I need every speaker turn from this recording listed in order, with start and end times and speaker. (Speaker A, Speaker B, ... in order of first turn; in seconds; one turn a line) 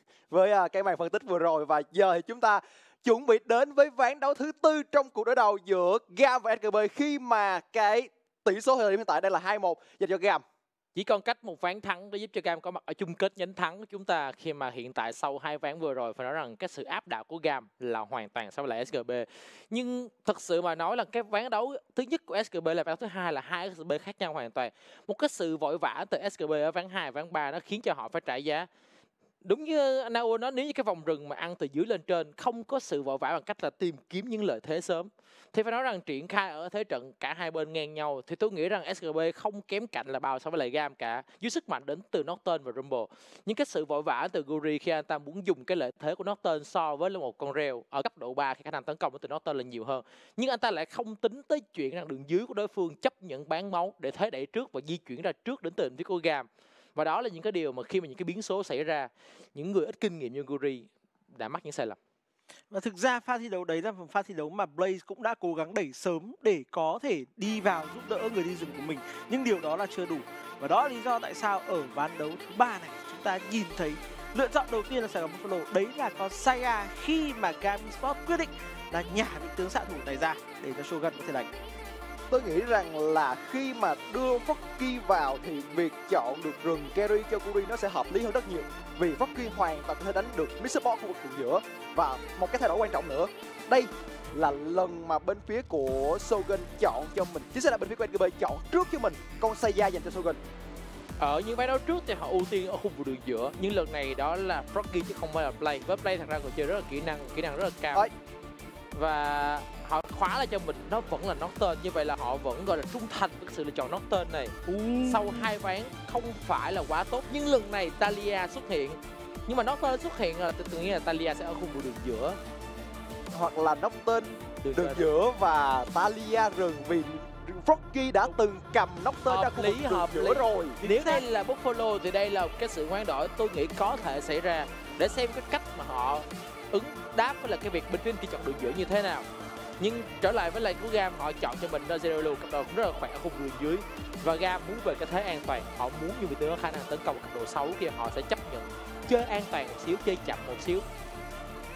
Speaker A: 0.3-10.4
Speaker B: 10.9-28.7
Speaker B: 29.4-62.0
Speaker C: 62.7-81.5
Speaker A: 82.3-100.4
Speaker B: 101.2-108.1
Speaker B: 108.9-122.4
Speaker C: 114.7-115.5
Speaker A: 123.3-130.8
Speaker B: 124.6-125.1
Speaker B: 129.3-139.3
Speaker C: 130.8-131.2
Speaker B: 139.8-150.8